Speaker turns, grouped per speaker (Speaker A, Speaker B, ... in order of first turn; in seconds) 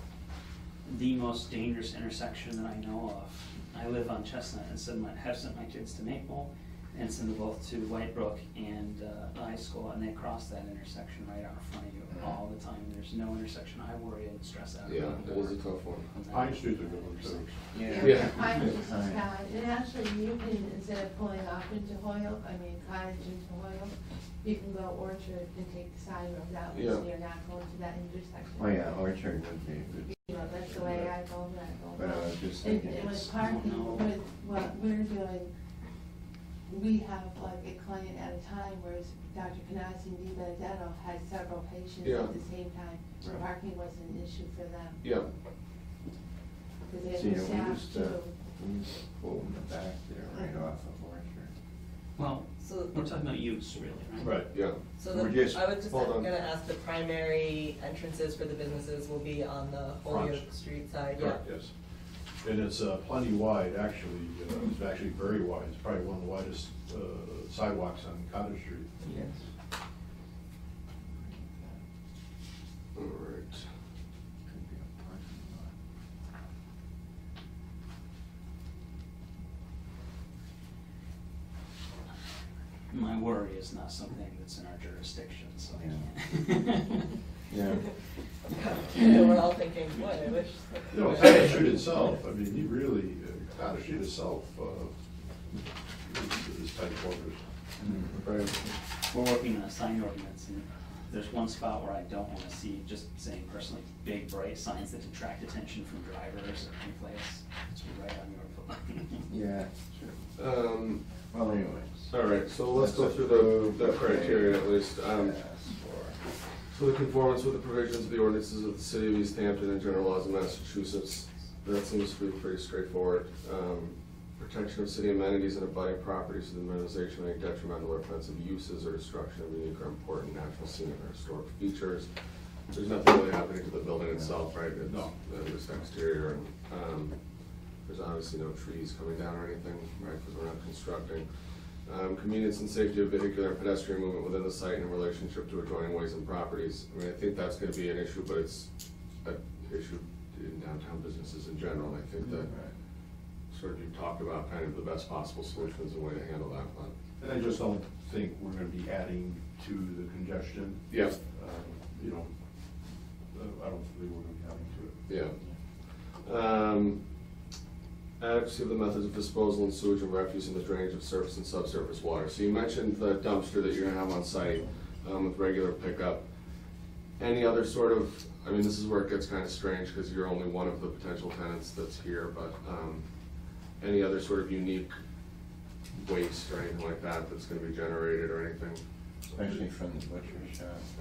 Speaker A: 0.8-17.8, 33.3-34.1, 52.2-54.4, 82.9-87.2, 99.0-109.3
Speaker B: 12.1-12.4, 17.7-19.3, 28.6-31.1, 31.9-33.5, 47.1-51.5, 55.0-55.7, 69.0-69.4, 71.2-71.8, 74.5-75.7, 85.8-86.1, 87.5-87.8, 109.3-110.2, 111.3-112.1, 112.7-116.2, 152.3-152.7, 189.3-190.9
Speaker C: 14.8-16.0, 18.0-18.4, 26.7-27.1, 42.0-42.3, 45.0-45.3, 54.5-54.8, 55.8-56.3, 72.9-73.7, 98.1-98.6, 110.4-111.0, 112.1-115.4, 116.7-132.1, 132.7-137.2, 137.8-148.7, 149.2-152.5, 153.5-156.9, 160.9-161.2, 165.1-167.0, 168.2-176.3, 177.2-183.1, 183.8-184.9, 185.9-188.8
Speaker D: 16.3-17.5, 54.2-54.5, 60.0-60.5, 61.1-61.7, 62.4-68.9, 90.9-94.9, 96.1-97.4, 134.8-135.2, 157.2-162.3, 163.3-165.1
Speaker E: 17.8-28.9, 30.1-35.5, 36.7-45.0, 46.9-48.3
Speaker F: 52.6-52.9, 55.0-61.4, 88.5-91.4